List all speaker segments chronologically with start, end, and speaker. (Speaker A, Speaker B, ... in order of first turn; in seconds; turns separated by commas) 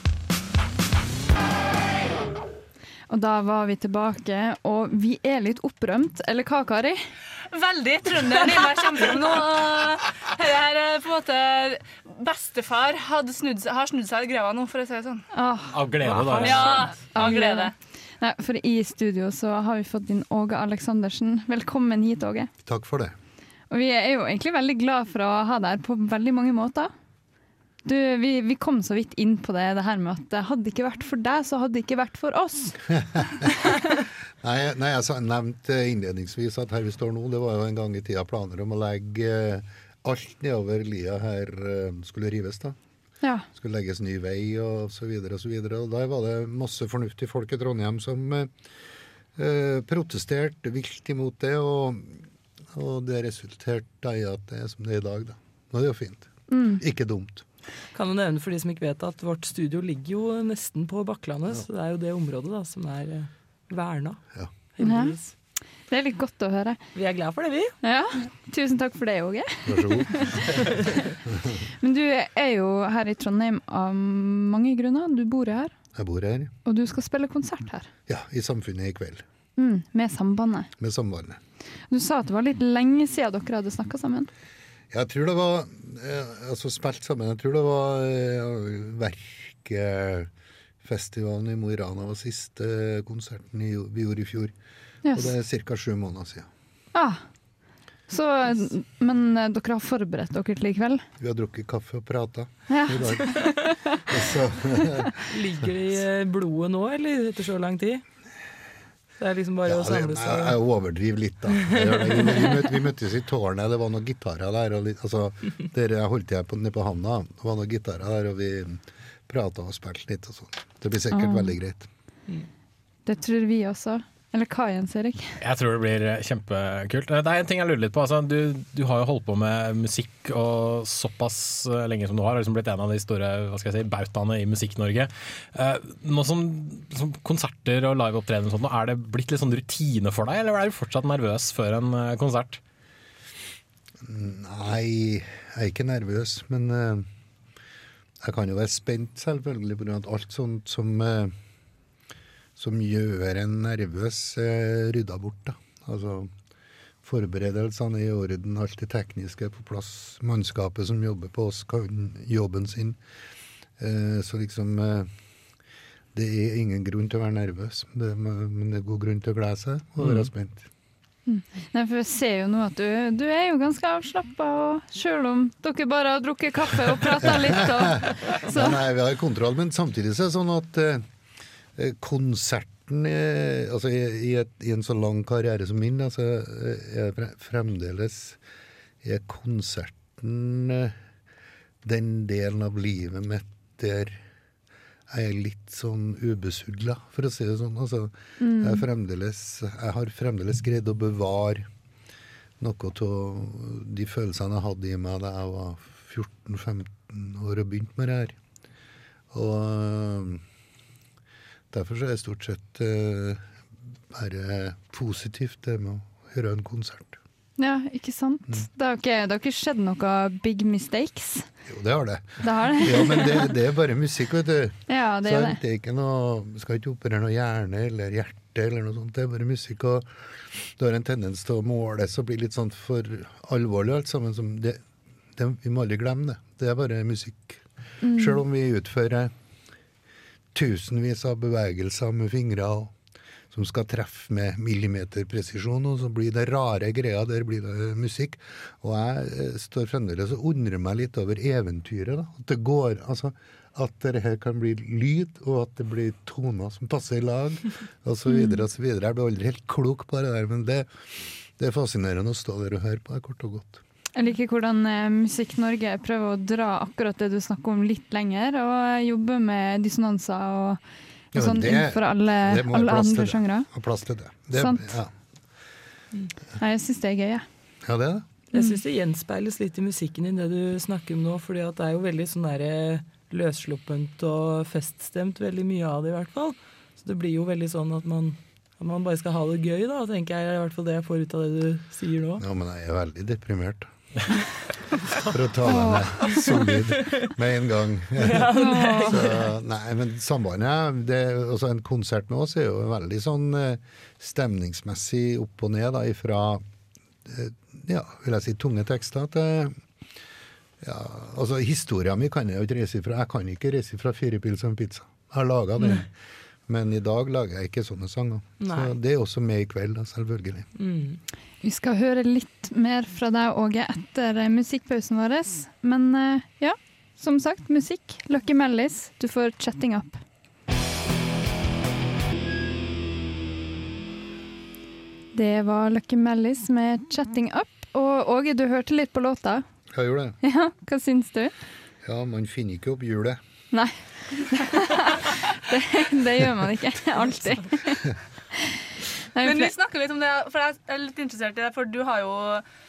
Speaker A: 3.1-7.0, Speaker B: 7.5-15.2, Speaker A: 15.3-22.5, Speaker C: 15.7-16.9, Speaker B: 16.3-17.7, Speaker D: 22.6-23.1, Speaker A: 23.7-26.9, Speaker A: 27.8-32.7, Speaker D: 32.9-33.7, Speaker D: 34.4-42.8, Speaker D: 43.5-48.5, Speaker D: 49.4-52.2, Speaker D: 52.7-57.4, Speaker A: 56.5-56.8, Speaker E: 57.9-64.2, Speaker E: 64.8-65.3, Speaker A: 64.8-65.2, Speaker A: 65.9-66.8, Speaker E: 66.9-67.7, Speaker A: 67.8-70.6, Speaker D: 69.7-70.2, Speaker A: 71.8-75.7, Speaker D: 75.9-76.5, Speaker A: 76.7-77.9, Speaker D: 78.1-79.2, Speaker A: 79.6-80.7, Speaker D: 80.8-81.4, Speaker A: 81.9-84.3, Speaker D: 84.9-90.3, Speaker D: 90.8-94.5, Speaker A: 95.1-95.3, Speaker D: 95.1-96.5, Speaker A: 96.9-97.2, Speaker A: 98.1-101.0, Speaker D: 101.2-103.5, Speaker A: 102.7-103.9, Speaker D: 104.1-105.2, Speaker E: 105.3-108.0, Speaker E: 109.2-110.6, Speaker D: 109.7-121.9, Speaker E: 111.6-112.5, Speaker A: 121.1-121.5, Speaker A: 123.0-125.4, Speaker C: 125.4-142.6, Speaker D: 144.0-147.1, Speaker D: 148.2-151.3, Speaker D: 152.6-156.3, Speaker D: 157.0-163.0, Speaker D: 163.8-165.1, Speaker D: 166.1-170.7, Speaker C: 170.0-170.3, Speaker A: 171.3-178.8, Speaker D: 177.2-181.0, Speaker D: 181.8-188.4, Speaker D: 189.0-190.9, Speaker D: 191.8-194.2, Speaker D: 195.1-201.7, Speaker A: 198.4-198.8, Speaker D: 202.6-208.3, Speaker D: 209.3-210.4, Speaker D: 211.7-213.4, Speaker D: 214.1-217.2, Speaker A: 217.6-221.4, Speaker D: 221.7-234.8, Speaker A: 222.4-223.5, Speaker A: 224.9-225.6, Speaker D: 235.4-237.6, Speaker A: 238.0-238.4, Speaker D: 238.1-239.3, Speaker D: 240.5-242.9, Speaker D: 243.5-263.8, Speaker A: 258.3-258.6, Speaker A: 264.1-270.8, Speaker A: 271.3-273.7, Speaker D: 271.3-275.1, Speaker A: 274.6-274.9, Speaker A: 276.6-277.4, Speaker D: 277.8-278.3, Speaker E: 278.5-292.4, Speaker D: 292.4-294.4, Speaker D: 295.3-298.5, Speaker A: 295.6-296.4, Speaker E: 298.2-299.5, Speaker A: 298.5-299.2, Speaker D: 299.1-306.6, Speaker D: 307.3-309.8, Speaker D: 310.8-316.1, Speaker E: 315.8-316.0, Speaker D: 316.7-320.7, Speaker E: 318.6-318.9, Speaker E: 320.8-321.2, Speaker A: 321.6-330.2, Speaker A: 335.3-339.6, Speaker D: 339.9-340.4, Speaker A: 340.4-341.5, Speaker D: 342.0-343.4, Speaker A: 343.7-348.0, Speaker A: 349.3-349.7, Speaker B: 349.4-352.6